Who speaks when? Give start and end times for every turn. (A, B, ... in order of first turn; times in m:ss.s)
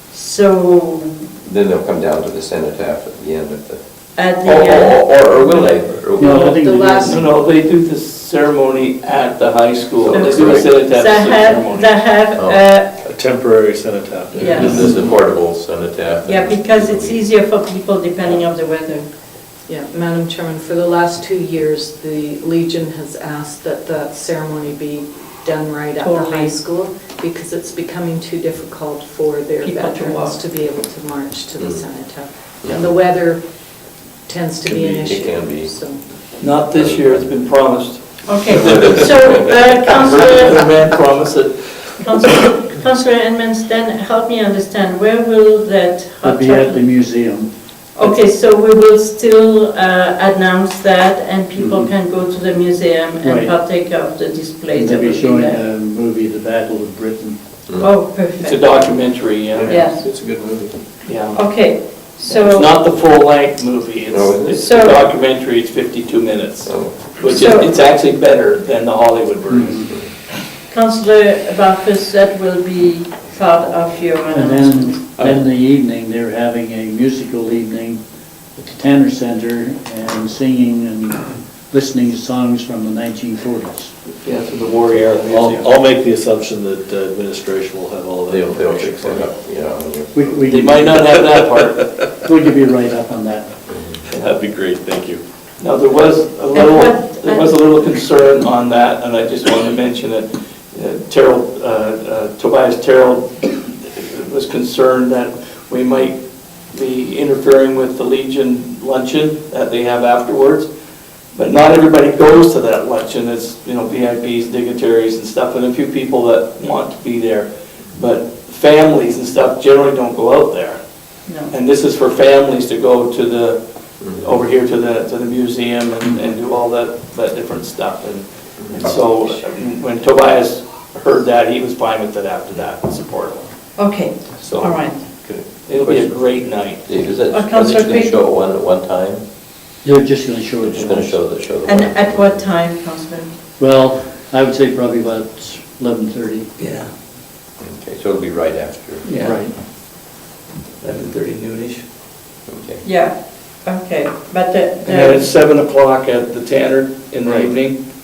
0:00.1-0:01.2 A
0:01.4-0:03.8 B
0:04.2-0:05.7 A
0:04.5-0:06.6 B
0:04.6-0:04.9 C
0:06.2-0:07.2 D
0:06.4-0:11.9 C
0:06.6-0:07.3 E
0:10.1-0:12.9 A
0:12.4-0:12.7 B
0:13.1-0:14.7 F
0:14.3-0:17.2 B
0:14.4-0:14.9 A
0:16.2-0:19.1 A
0:19.7-0:33.4 E
0:26.0-0:26.6 A
0:29.6-0:30.4 A
0:31.6-0:31.9 B
0:32.6-0:32.9 B
0:34.3-0:36.0 E
0:34.7-0:35.7 B
0:36.4-0:39.1 C
0:36.7-0:37.4 B
0:38.3-0:40.6 A
0:38.5-0:39.6 B
0:39.9-0:41.9 C
0:42.0-0:46.8 A
0:46.2-0:48.2 D
0:48.0-0:55.6 A
0:53.2-0:53.6 D
0:54.7-0:57.4 D
0:57.7-0:57.9 B
0:57.8-0:58.6 A
0:58.4-0:59.9 C
0:59.7-1:00.0 A
0:59.7-1:00.7 F
1:01.0-1:01.7 C
1:01.4-1:02.7 A
1:02.2-1:09.9 C
1:04.1-1:04.7 B
1:04.6-1:05.0 A
1:06.6-1:07.2 B
1:07.3-1:07.7 A
1:09.5-1:09.9 D
1:10.7-1:15.0 A
1:14.3-1:18.0 D
1:18.6-1:23.9 D
1:24.2-1:25.7 C
1:25.3-1:29.1 F
1:28.3-1:30.2 B
1:30.1-1:31.0 D
1:30.5-1:31.9 C
1:32.2-1:33.5 D
1:33.7-1:34.1 B
1:34.2-1:35.2 F
1:35.6-1:46.2 C
1:36.5-1:37.5 A
1:46.7-1:50.7 C
1:51.4-2:00.8 C
2:01.3-2:01.5 A
2:01.5-2:03.6 C
2:04.2-2:13.5 C
2:13.8-2:15.0 A
2:14.4-2:16.2 B
2:15.7-2:16.8 C
2:16.8-2:19.2 B
2:17.3-2:18.2 A
2:19.8-2:21.2 D
2:20.6-2:22.5 B
2:21.7-2:23.3 A
2:23.6-2:26.5 D
2:26.6-2:26.9 C
2:27.6-2:29.1 B
2:29.0-2:29.4 C
2:29.2-2:29.5 D
2:30.8-2:31.8 C
2:32.5-2:32.8 B
2:32.8-2:35.3 A
2:34.8-2:37.8 C